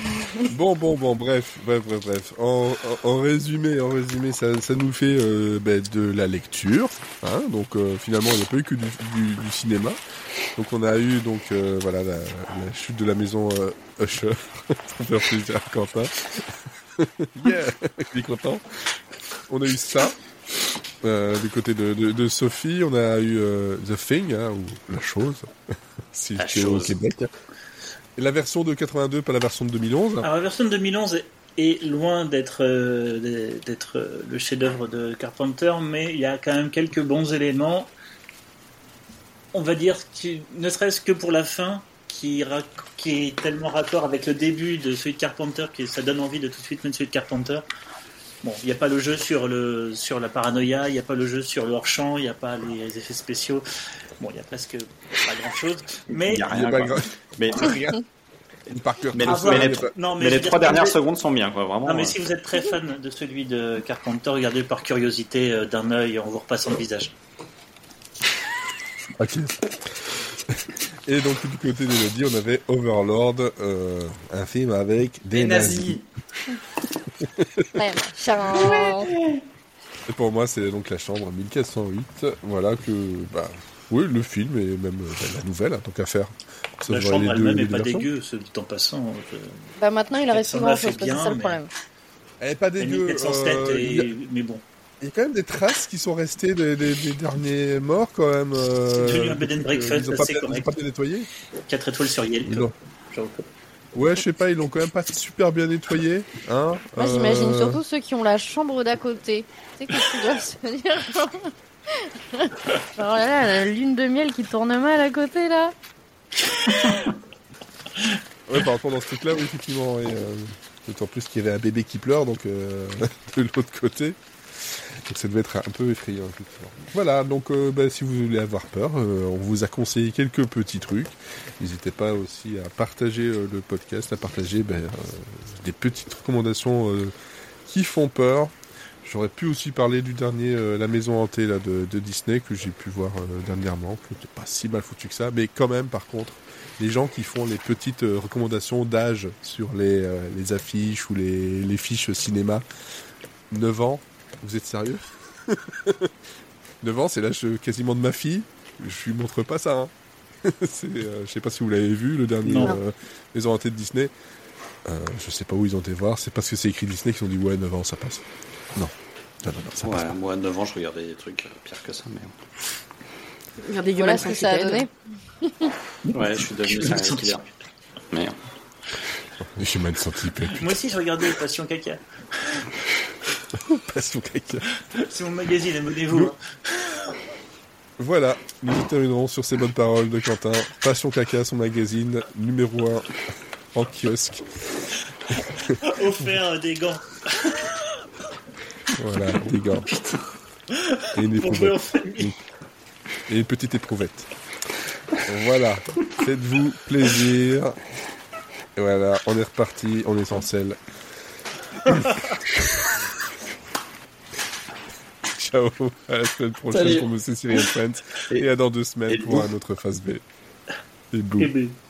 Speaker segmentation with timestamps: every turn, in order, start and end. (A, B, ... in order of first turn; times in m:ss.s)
0:00.4-0:10.0 A
0:10.5-0:18.6 A
0:19.5-0:20.2 A
0:21.0-0:25.5 A
0:26.1-0:27.3 A
0:26.4-0:26.9 B
0:28.2-0:30.3 A
0:30.2-0:37.9 C
0:39.5-0:47.6 C
0:48.4-0:53.6 C
0:54.2-0:56.5 C
0:56.2-0:58.0 B
0:56.5-0:58.0 A
0:58.7-0:59.9 A
0:59.1-1:02.2 B
0:59.2-1:01.0 C
1:01.8-1:07.1 C
1:09.2-1:16.0 A
1:15.3-1:16.0 B
1:17.2-1:17.7 A
1:17.7-1:19.1 D
1:18.6-1:19.4 E
1:20.1-1:28.1 A
1:26.9-1:29.7 C
1:29.8-1:31.7 D
1:30.3-1:31.6 C
1:32.4-1:34.1 A
1:32.8-1:34.6 C
1:35.0-1:41.3 A
1:39.0-1:40.7 C
1:41.7-1:43.5 C
1:42.4-1:42.7 A
1:43.9-1:47.8 A
1:47.0-1:55.7 D
1:58.5-2:17.1 A
2:17.6-2:32.6 A
2:33.5-2:36.1 A
2:36.8-2:39.9 A
2:40.4-2:44.1 A
2:42.4-2:42.8 C
2:44.8-2:50.1 A
2:49.8-2:52.3 B
2:53.6-2:54.8 E
2:54.0-2:55.7 D
2:56.1-2:57.4 B
2:56.7-2:57.3 C
2:58.1-2:58.4 B
2:59.4-3:00.7 A
3:00.4-3:02.7 C
3:03.5-3:04.7 A
3:04.9-3:06.9 C
3:08.0-3:13.1 A
3:13.7-3:14.8 A
3:15.8-3:17.8 C
3:18.9-3:19.9 A
3:20.7-3:22.3 C
3:21.1-3:22.4 A
3:23.3-3:24.3 A
3:25.2-3:27.8 A
3:28.8-3:30.8 A
3:31.8-3:33.0 A
3:35.3-3:40.2 A
3:36.7-3:37.1 B
3:39.1-3:39.5 B
3:41.1-3:41.5 A
3:41.4-3:41.8 C